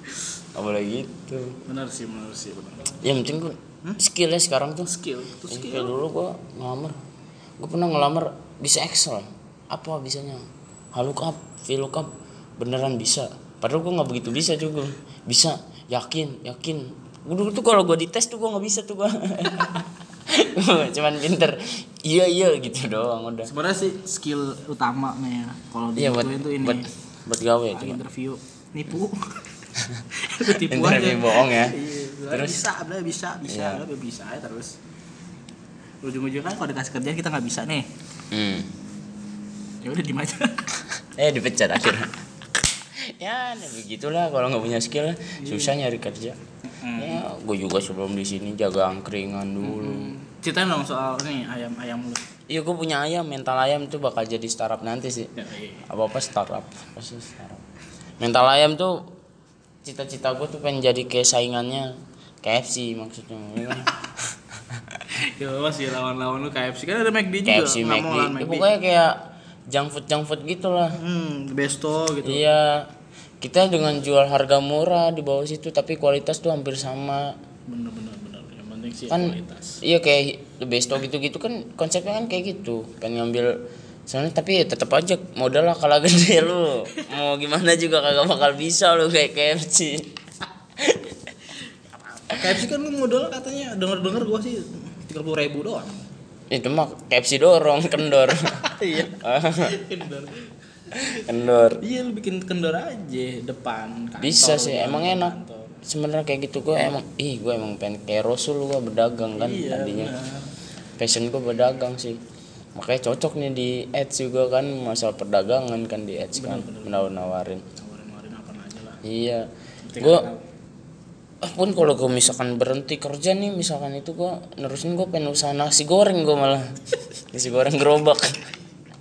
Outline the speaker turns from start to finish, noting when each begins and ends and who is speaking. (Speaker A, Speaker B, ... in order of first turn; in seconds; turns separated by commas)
Speaker A: 0.5-1.6, Speaker B: 1.6-3.0, Speaker A: 3.0-4.9, Speaker B: 4.8-6.0, Speaker A: 5.5-7.0, Speaker A: 7.6-23.5, Speaker B: 23.5-26.9, Speaker A: 26.0-28.0, Speaker B: 27.7-29.4, Speaker B: 30.1-34.8, Speaker A: 30.4-31.8, Speaker A: 32.3-32.6, Speaker A: 33.5-33.8, Speaker B: 36.0-37.9, Speaker A: 38.3-38.7, Speaker B: 39.8-40.8, Speaker A: 41.1-42.1, Speaker A: 43.1-46.4, Speaker B: 45.4-45.8, Speaker B: 46.7-47.2, Speaker A: 47.0-50.1, Speaker B: 49.6-52.2, Speaker A: 52.5-55.3, Speaker B: 55.4-55.9, Speaker A: 55.9-57.6, Speaker A: 58.2-59.0, Speaker A: 59.8-64.8, Speaker B: 65.1-68.7, Speaker A: 67.5-69.2, Speaker A: 69.7-71.0, Speaker B: 71.0-72.4, Speaker A: 72.2-72.9, Speaker A: 73.4-77.3, Speaker B: 77.7-79.8, Speaker A: 79.1-83.5, Speaker A: 84.1-90.1, Speaker A: 90.8-91.2, Speaker B: 92.2-96.0, Speaker A: 96.5-99.8, Speaker B: 98.6-101.2, Speaker A: 100.9-101.8, Speaker B: 101.8-105.8, Speaker A: 104.2-110.1, Speaker B: 109.4-110.5, Speaker A: 111.0-112.2, Speaker A: 112.8-117.6, Speaker B: 116.3-117.1, Speaker B: 117.8-119.0, Speaker A: 119.0-119.5, Speaker B: 119.8-120.5, Speaker A: 120.0-120.3, Speaker A: 121.4-126.7, Speaker A: 127.3-128.4